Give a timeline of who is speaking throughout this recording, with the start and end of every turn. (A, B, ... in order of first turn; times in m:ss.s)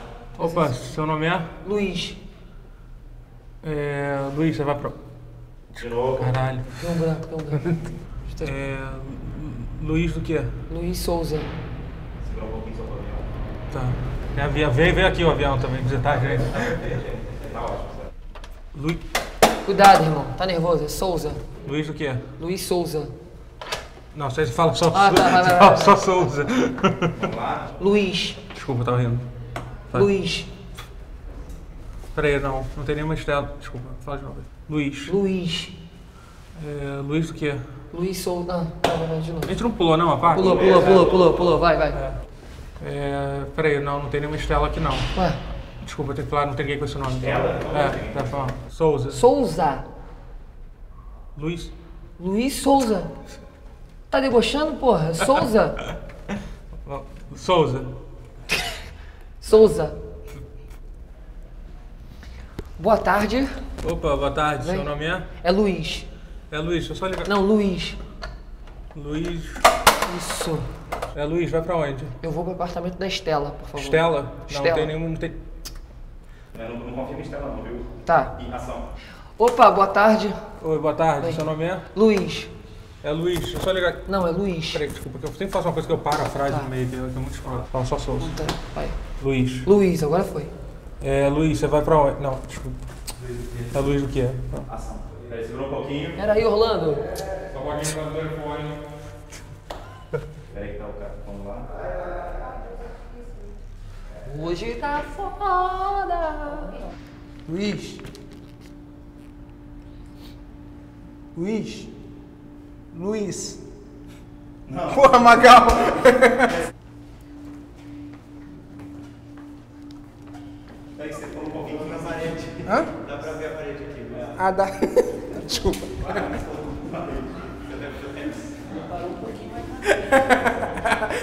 0:00.4-0:01.5 A
0:00.4-0:00.7 B
0:01.6-0:02.2 B
0:03.6-0:05.0 A
0:05.7-0:07.1 A
0:06.8-0:08.5 B
0:08.4-0:10.6 A
0:10.7-0:11.5 B
0:12.3-0:13.2 C
0:13.7-0:16.9 A
0:17.3-0:17.9 C
0:18.7-0:19.0 A
0:19.6-0:21.4 B
0:21.6-0:22.2 A
0:22.4-0:23.1 B
0:24.1-0:27.3 A
0:24.9-0:26.1 B
0:27.2-0:27.7 C
0:27.8-0:28.4 B
0:28.5-0:29.3 A
0:29.9-0:30.5 B
0:32.1-0:35.1 A
0:35.0-0:35.7 B
0:36.5-0:37.7 A
0:37.9-0:39.5 B
0:39.4-0:40.9 A
0:40.3-0:42.0 B
0:42.8-0:45.1 A
0:45.1-0:45.4 B
0:45.8-0:49.2 A
0:49.1-0:49.8 B
0:51.3-0:51.7 A
0:52.2-0:53.1 B
0:54.1-0:55.9 B
0:56.8-0:57.9 A
0:59.4-1:00.0 B
1:02.8-1:03.6 B
1:03.8-1:05.3 A
1:04.6-1:06.1 B
1:06.5-1:07.3 A
1:07.2-1:08.0 B
1:08.9-1:09.7 A
1:10.0-1:10.7 B
1:11.1-1:12.2 A
1:12.2-1:14.9 B
1:13.8-1:15.4 A
1:16.5-1:17.9 C
1:18.0-1:18.4 B
1:18.4-1:18.8 C
1:19.4-1:20.4 B
1:20.6-1:21.9 A
1:21.2-1:22.5 B
1:23.0-1:24.1 A
1:24.0-1:24.8 B
1:24.7-1:28.4 A
1:28.2-1:29.0 B
1:29.2-1:29.7 A
1:29.6-1:30.5 B
1:31.0-1:32.8 A
1:33.6-1:34.7 A
1:34.7-1:36.1 C
1:36.2-1:37.0 B
1:37.5-1:38.8 A
1:40.5-1:41.7 C
1:44.2-1:46.8 B
1:47.5-1:48.0 D
1:51.3-1:51.9 D
1:52.9-1:53.6 D
1:54.8-1:56.6 D
2:01.0-2:02.6 C
2:02.6-2:02.9 D
2:03.2-2:04.3 C
2:04.3-2:06.4 D
2:06.3-2:08.3 C
2:10.0-2:10.3 D